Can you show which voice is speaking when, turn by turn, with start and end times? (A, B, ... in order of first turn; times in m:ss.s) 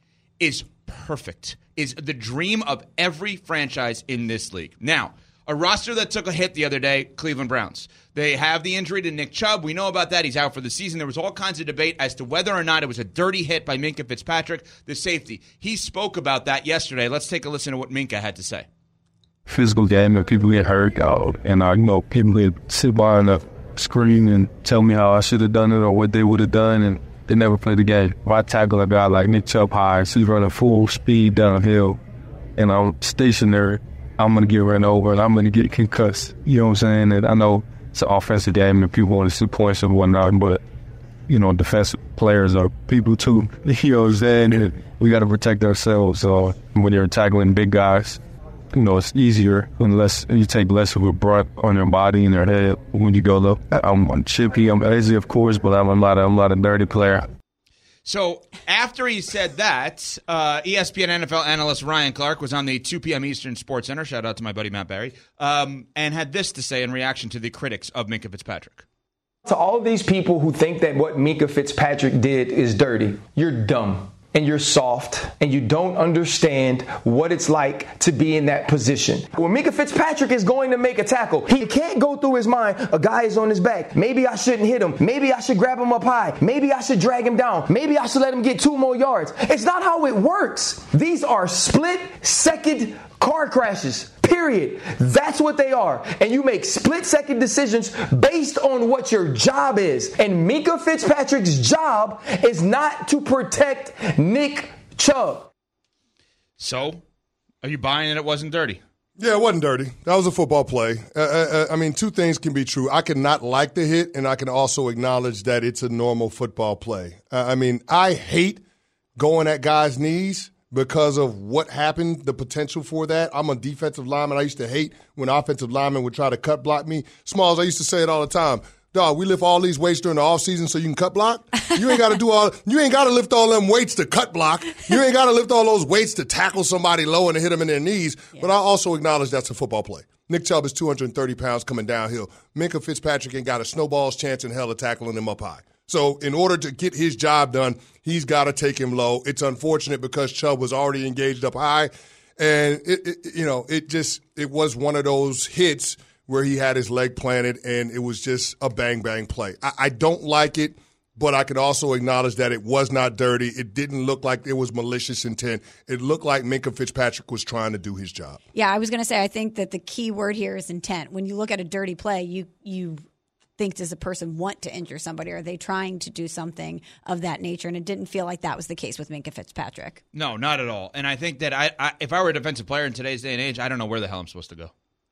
0:00.4-0:18.6 A
0:19.5-0:32.0 B
0:32.6-0:40.6 B
0:41.3-0:48.2 B
0:48.7-0:57.3 B
0:58.0-1:08.8 A
1:09.4-1:45.5 C
1:46.6-1:47.0 A
1:47.6-1:48.8 A
1:49.2-1:58.6 D
1:59.2-2:48.4 D
2:48.5-2:53.0 E
2:53.6-3:00.0 E
3:00.1-3:04.7 A